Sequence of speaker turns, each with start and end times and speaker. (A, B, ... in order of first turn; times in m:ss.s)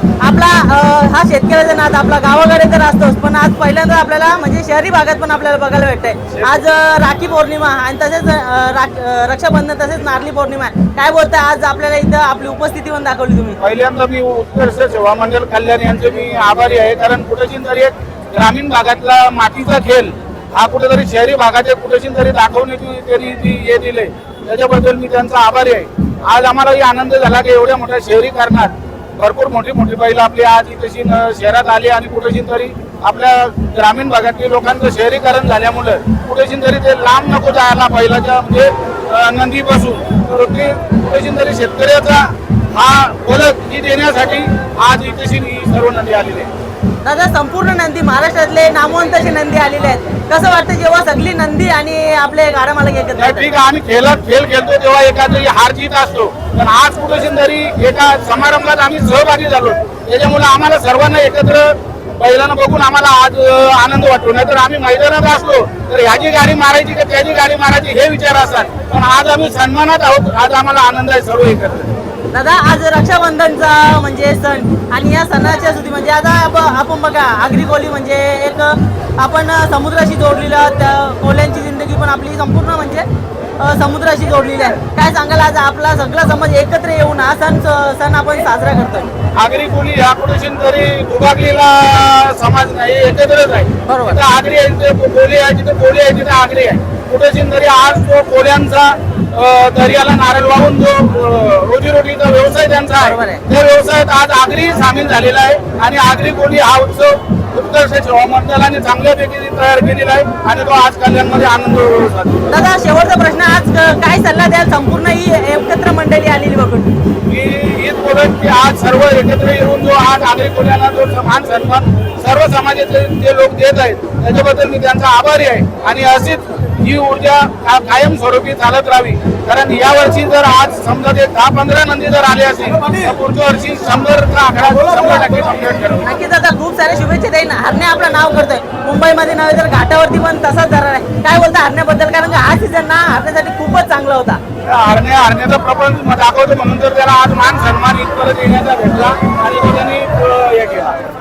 0:00.2-0:13.6 A
0:06.3-0:06.6 B
0:13.6-0:46.5 B
0:47.0-0:53.5 A
0:53.2-1:11.9 B
1:12.3-1:23.0 A
1:23.6-1:29.1 A
1:29.4-1:52.6 B
1:33.9-1:34.2 A
1:43.0-1:43.4 A
1:52.5-1:56.9 A
1:57.3-2:16.1 B
2:16.0-2:24.4 A
2:24.7-2:31.0 B